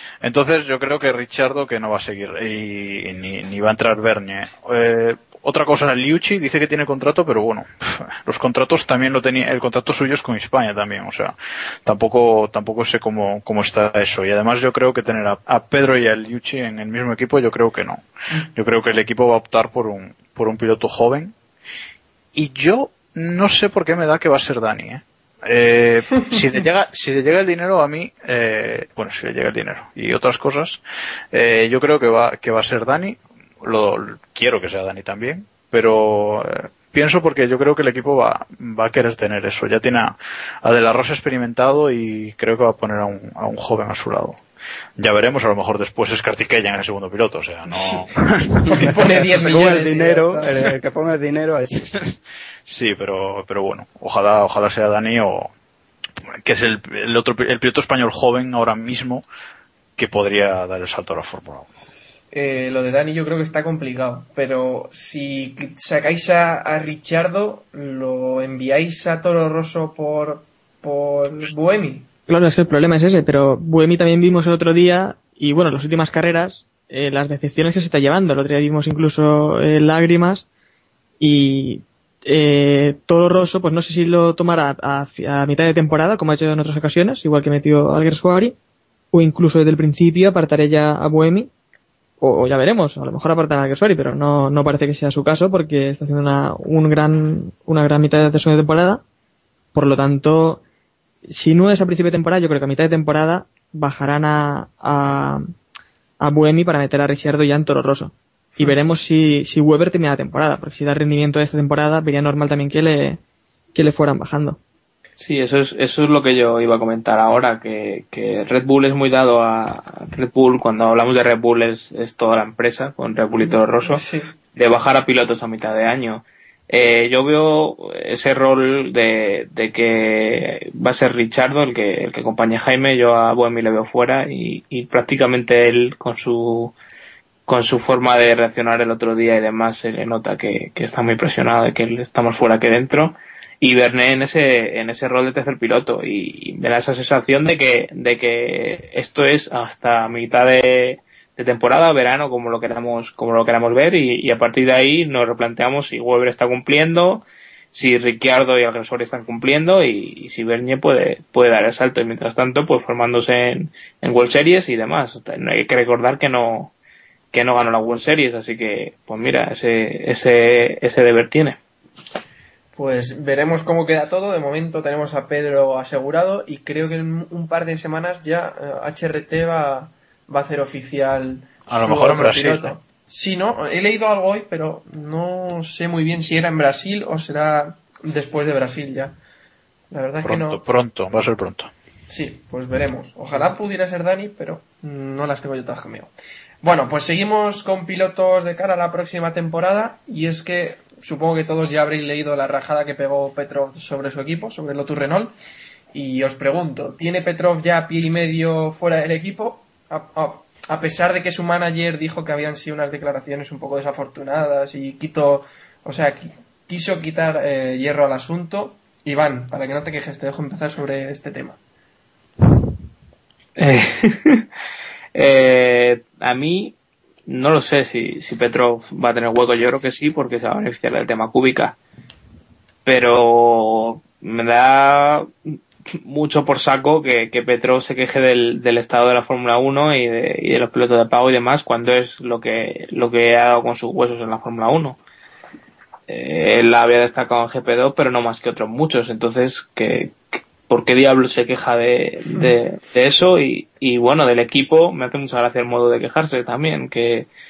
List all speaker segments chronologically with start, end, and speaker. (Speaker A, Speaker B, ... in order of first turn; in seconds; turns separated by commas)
Speaker A: 0.2-18.0, Speaker A: 18.5-21.3, Speaker A: 22.3-30.8, Speaker A: 31.3-44.4, Speaker A: 45.0-48.8, Speaker B: 47.7-48.0, Speaker B: 48.6-50.5, Speaker C: 48.8-51.9, Speaker A: 52.6-55.5, Speaker A: 56.4-59.2, Speaker A: 60.0-61.7, Speaker B: 62.3-72.1, Speaker D: 72.3-80.5, Speaker D: 81.2-88.5, Speaker D: 89.1-91.5, Speaker D: 92.2-99.0, Speaker D: 99.7-100.6, Speaker D: 101.3-105.5, Speaker D: 106.2-113.2, Speaker D: 113.7-114.6, Speaker E: 115.2-124.0, Speaker B: 123.4-124.3, Speaker E: 124.5-136.8, Speaker E: 137.5-166.7, Speaker E: 167.3-171.6, Speaker B: 172.8-189.2, Speaker A: 181.7-182.7, Speaker B: 189.9-190.6, Speaker A: 190.2-191.7, Speaker B: 192.1-196.1, Speaker B: 196.6-205.3, Speaker B: 205.9-221.6, Speaker E: 223.6-224.5, Speaker E: 225.1-226.8, Speaker E: 227.3-231.8, Speaker E: 232.8-235.3, Speaker E: 235.8-245.0, Speaker E: 246.1-257.3